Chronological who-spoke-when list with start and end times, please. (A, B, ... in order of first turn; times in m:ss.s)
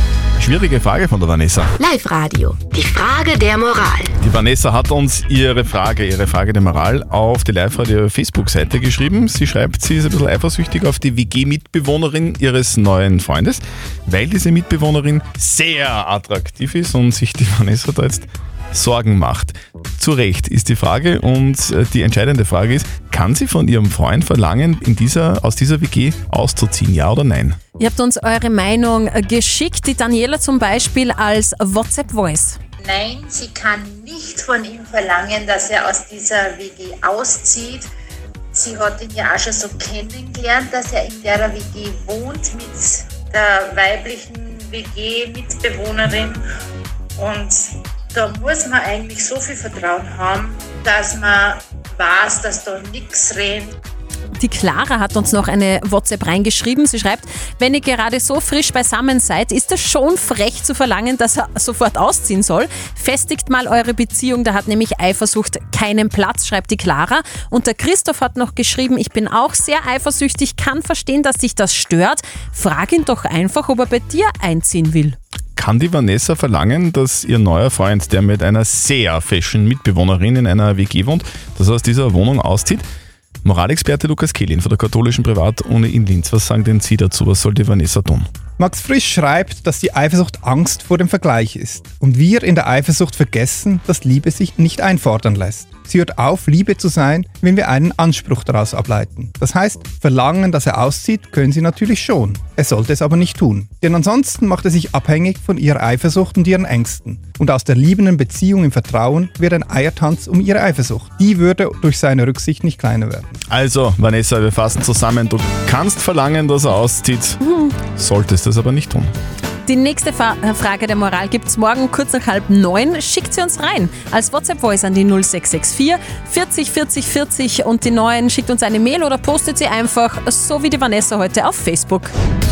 0:00.4-0:01.7 A
0:01.8-0:04.1 B
0:04.2-0:27.6 A
0:27.8-0:32.6 C
0:32.8-0:37.9 D
0:38.5-0:46.4 D
0:47.2-0:47.6 D
0:48.1-0:53.7 D
0:54.4-1:15.2 C
1:15.6-1:22.8 A
1:23.4-1:28.3 A
1:28.6-1:53.4 E
1:53.5-1:57.4 A
1:57.4-1:57.8 C
1:58.0-1:59.1 A
1:59.6-2:12.1 C